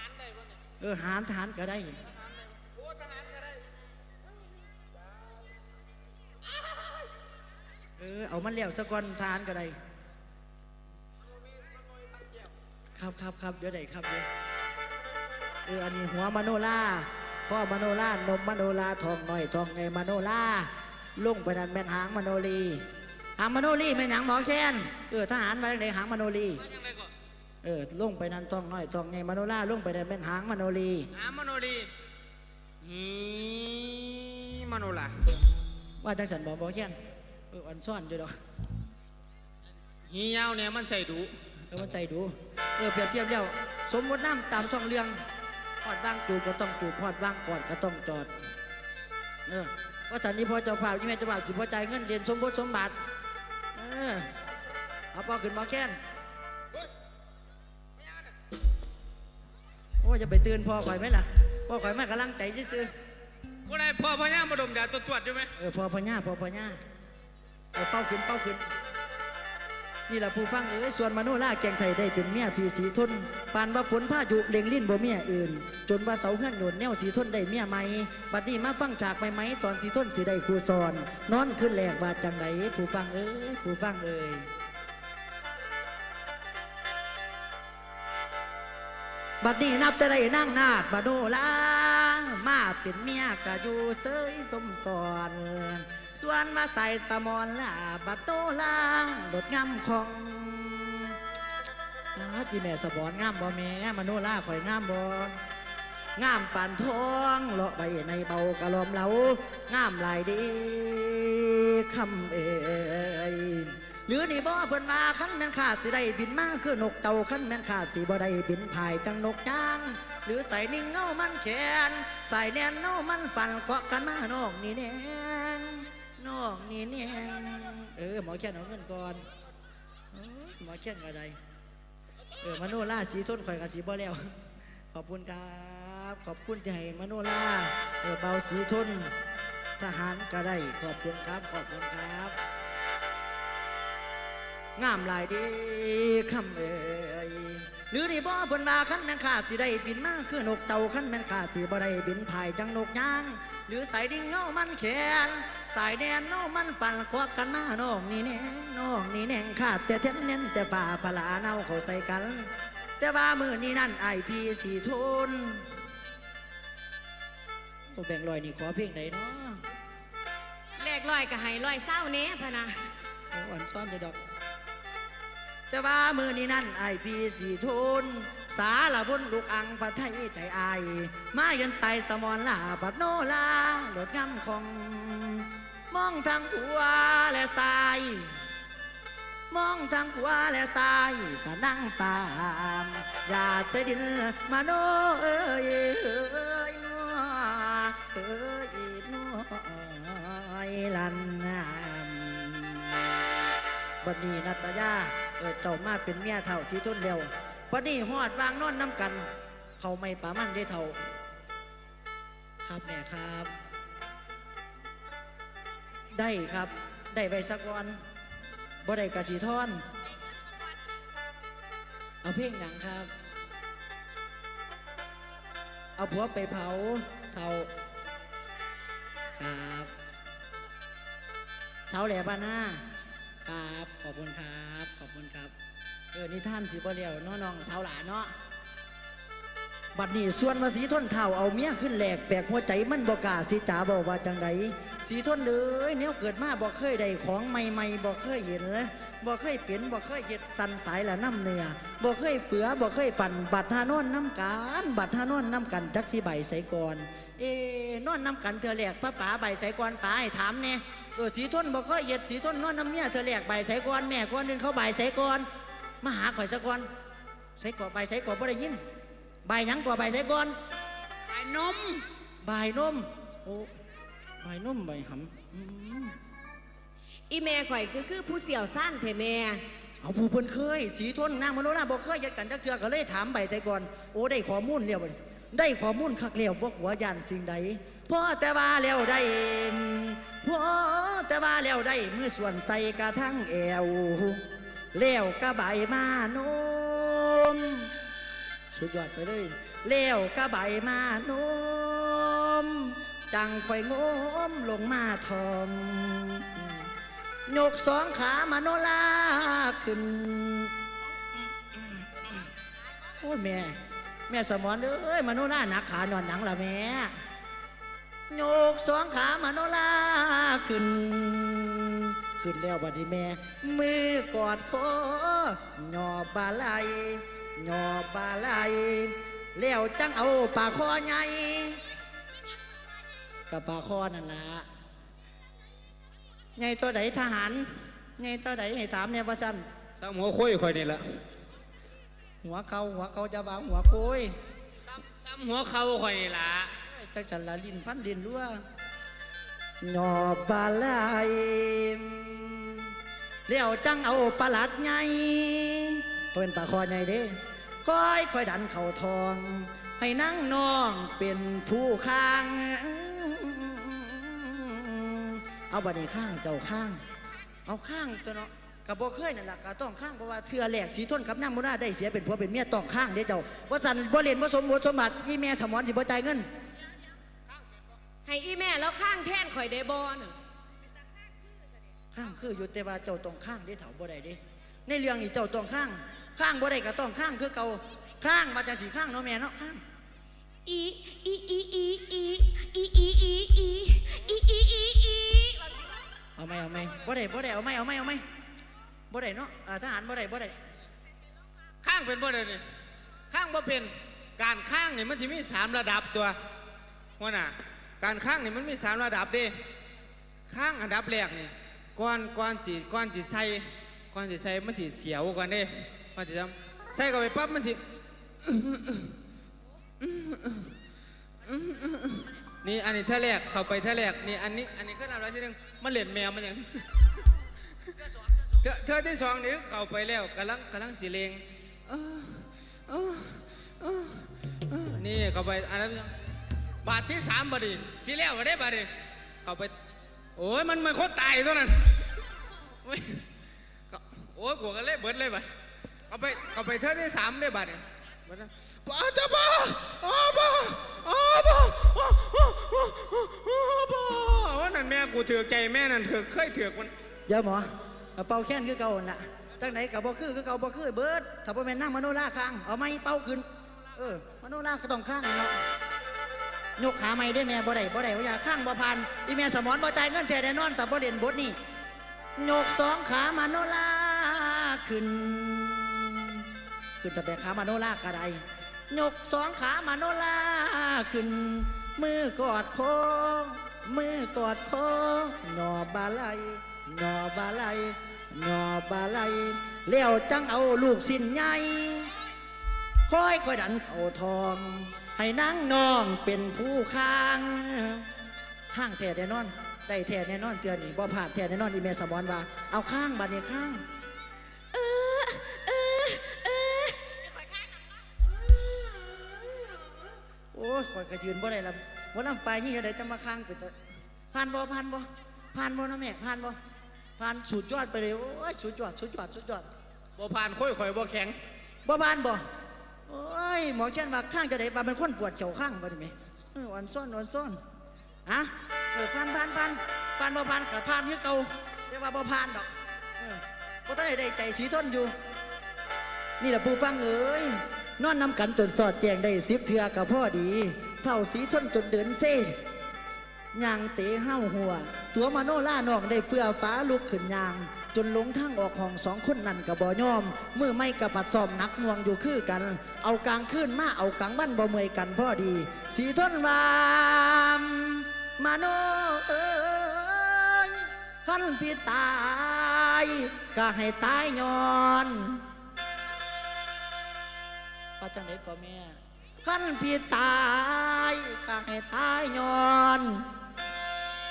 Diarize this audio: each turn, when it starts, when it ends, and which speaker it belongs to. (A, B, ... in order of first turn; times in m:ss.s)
0:00.8-0:02.0 A
0:08.0-0:09.8 A
0:13.0-0:14.3 A
0:15.6-0:22.8 A
0:23.4-0:26.6 A
0:26.7-0:27.1 B
0:27.6-0:31.1 A
0:31.2-0:31.9 B
0:32.8-0:35.2 B
0:36.0-0:37.0 A
0:37.5-0:38.4 A
0:40.1-0:41.4 B
0:41.7-0:45.2 A
0:45.8-0:48.3 A
0:49.5-0:53.0 A
0:53.8-0:54.3 A
0:55.1-0:56.0 A
1:00.0-1:02.9 A
1:03.7-1:05.5 B
1:05.6-1:06.8 A
1:07.8-1:08.6 A
1:10.1-1:24.5 A
1:29.4-1:41.2 A
1:42.2-1:45.4 A
1:46.2-2:09.2 A
2:10.1-2:11.4 A
2:12.4-2:14.2 A
2:14.9-2:19.1 A
2:19.8-2:22.4 A
2:24.8-2:42.5 A
2:43.0-2:45.7 A
2:47.9-2:49.6 A
2:50.8-2:52.8 C
2:53.3-2:54.2 A
2:55.7-3:08.4 A
3:09.5-3:23.0 A
3:24.0-3:29.3 A
3:29.8-3:31.0 A
3:32.6-3:33.5 A
3:36.1-3:38.0 A
3:38.8-3:39.8 A
3:42.2-3:43.1 A
3:46.0-3:47.7 A
3:49.4-3:49.9 A
3:51.9-3:52.8 A
3:53.4-3:55.5 A
3:56.1-3:58.3 A
4:00.0-4:25.5 A
4:26.0-4:26.9 A
4:27.6-4:28.8 A
4:29.4-4:30.6 A
4:31.3-4:32.1 C
4:32.4-4:33.7 A
4:34.4-4:36.2 A
4:37.3-4:39.6 C
4:40.0-4:54.4 A
4:54.9-4:57.9 A
4:58.7-5:06.9 A
5:07.5-5:10.7 A
5:11.4-5:12.5 A
5:13.2-5:17.1 A
5:18.3-5:31.8 A
5:33.5-5:34.7 A
5:36.6-5:39.6 A
5:40.0-5:41.2 B
5:42.4-5:44.4 A
5:45.0-5:46.8 B
5:46.9-5:48.6 A
5:49.8-5:52.9 A
5:53.5-6:07.0 A
6:07.6-6:16.5 A
6:18.3-6:20.4 C
6:22.1-6:29.8 A
6:30.7-6:35.9 C
6:36.4-6:38.2 A
6:39.1-6:40.6 A
6:41.8-6:42.6 B
6:43.3-6:46.4 B
6:47.2-6:49.6 B
6:50.5-6:57.8 B
6:58.4-6:59.1 B
7:00.0-7:00.7 B
7:01.4-7:07.0 B
7:08.5-7:16.2 B
7:16.8-7:18.9 B
7:19.4-7:19.8 B
7:20.4-7:22.2 B
7:22.8-7:23.3 B
7:23.9-7:25.5 B
7:26.1-7:36.9 B
7:37.3-7:45.6 A
7:46.8-7:51.6 A
7:52.4-7:56.5 A
7:57.0-8:12.1 A
8:13.1-8:18.1 A
8:18.7-8:23.8 A
8:24.7-8:27.8 C
8:30.5-8:33.8 A
8:34.3-8:36.6 A
8:37.2-8:39.7 A
8:40.2-8:41.4 B
8:41.8-8:42.4 A
8:43.1-8:47.6 A
8:48.3-8:55.2 A
8:56.4-9:02.6 A
9:03.5-9:25.4 A
9:28.0-9:33.2 A